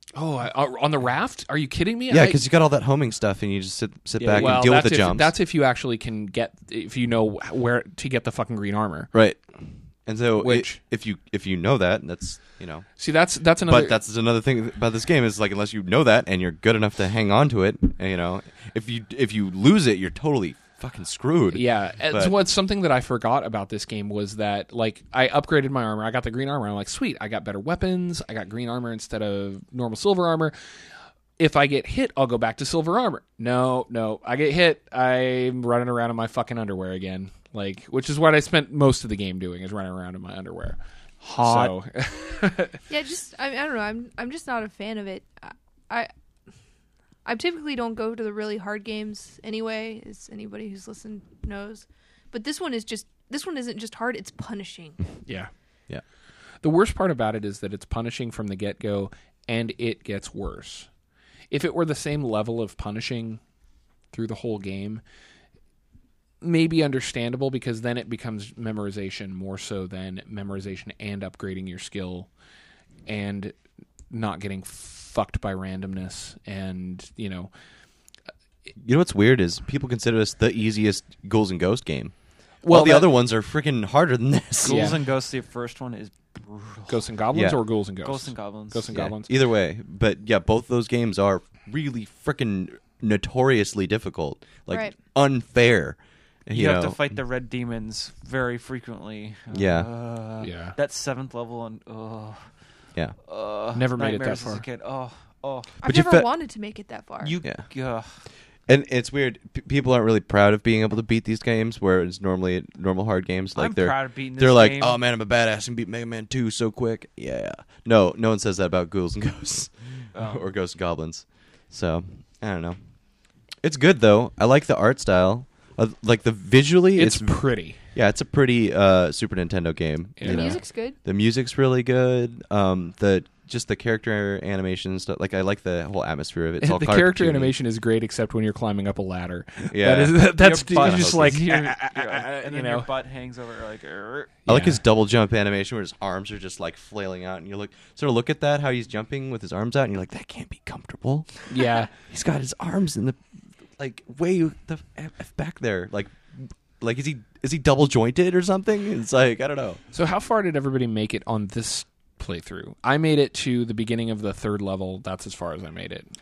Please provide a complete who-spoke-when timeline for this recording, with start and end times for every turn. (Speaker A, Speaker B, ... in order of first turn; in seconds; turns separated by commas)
Speaker A: 0.1-2.4, Speaker B: 2.1-5.3, Speaker C: 4.2-4.7, Speaker A: 4.3-9.1, Speaker B: 9.1-9.4, Speaker B: 10.1-12.9, Speaker A: 10.4-10.8, Speaker A: 13.0-13.9, Speaker B: 13.7-22.3, Speaker A: 21.5-30.5, Speaker A: 31.4-40.8, Speaker C: 41.2-41.7, Speaker A: 41.3-42.8, Speaker D: 42.9-46.1, Speaker D: 47.2-55.0, Speaker A: 56.6-60.9, Speaker A: 61.5-63.4, Speaker A: 64.1-65.0, Speaker A: 66.4-72.3, Speaker A: 73.0-73.5, Speaker A: 74.1-77.5, Speaker B: 78.8-84.9, Speaker A: 82.6-83.1, Speaker C: 84.6-87.1, Speaker A: 84.6-85.0, Speaker A: 86.9-89.3, Speaker C: 88.0-89.0, Speaker B: 88.9-97.0, Speaker D: 94.7-94.9, Speaker C: 96.5-102.5, Speaker B: 99.5-99.9, Speaker A: 100.4-100.7, Speaker C: 103.2-105.7, Speaker A: 103.7-104.6, Speaker B: 105.8-106.3, Speaker D: 105.8-107.3, Speaker C: 107.2-108.1, Speaker B: 108.7-122.8, Speaker C: 113.5-115.0, Speaker C: 120.1-120.4, Speaker B: 123.6-127.4, Speaker A: 126.9-127.8, Speaker B: 127.9-137.5, Speaker A: 130.2-130.6, Speaker D: 130.2-131.0, Speaker A: 136.6-142.9, Speaker B: 139.7-141.4, Speaker C: 140.3-144.4, Speaker B: 144.4-153.2, Speaker A: 144.5-144.8, Speaker A: 151.5-151.9, Speaker B: 153.8-159.8, Speaker A: 159.9-166.1